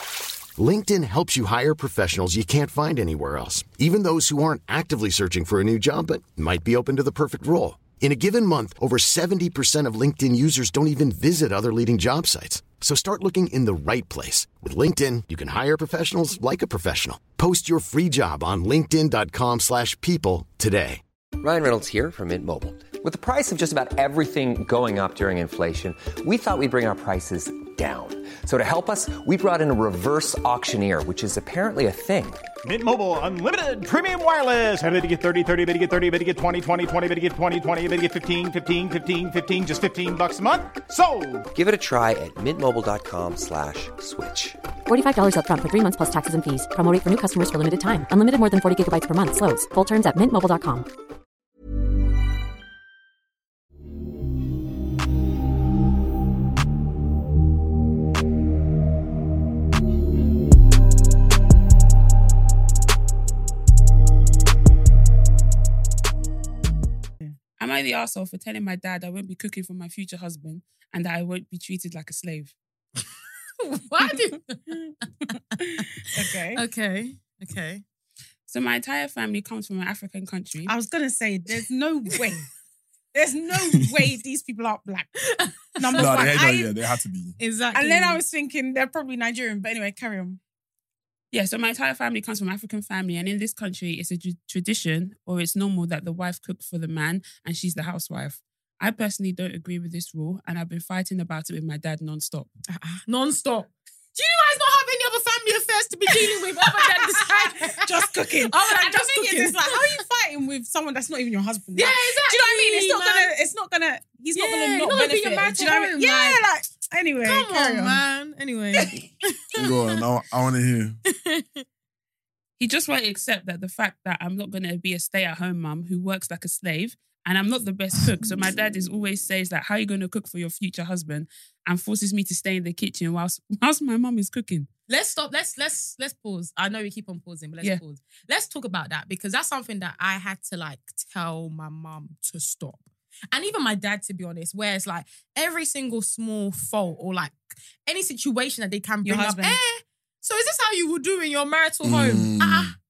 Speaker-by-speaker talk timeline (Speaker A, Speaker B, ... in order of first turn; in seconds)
Speaker A: 0.6-21.0
Speaker B: 21.4-32.4, 41.5-44.6
Speaker C: 32.6-41.5
Speaker D: 44.9-50.9
Speaker E: 67.6-72.5, 78.5-80.7, 91.3-102.5, 122.6-134.7
Speaker F: 73.6-74.7, 76.5-77.8, 85.2-86.3, 87.4-88.2, 102.7-109.8, 111.8-113.3, 114.3-116.4, 117.2-120.0, 121.1-121.6, 134.9-152.7
Speaker G: 74.0-74.9, 75.6-76.6, 80.7-82.5, 83.1-85.1, 85.8-86.7, 87.7-90.4, 106.1-118.0, 118.8-119.1, 149.1-149.6
Speaker H: 86.0-87.4, 119.6-121.0, 151.8-152.7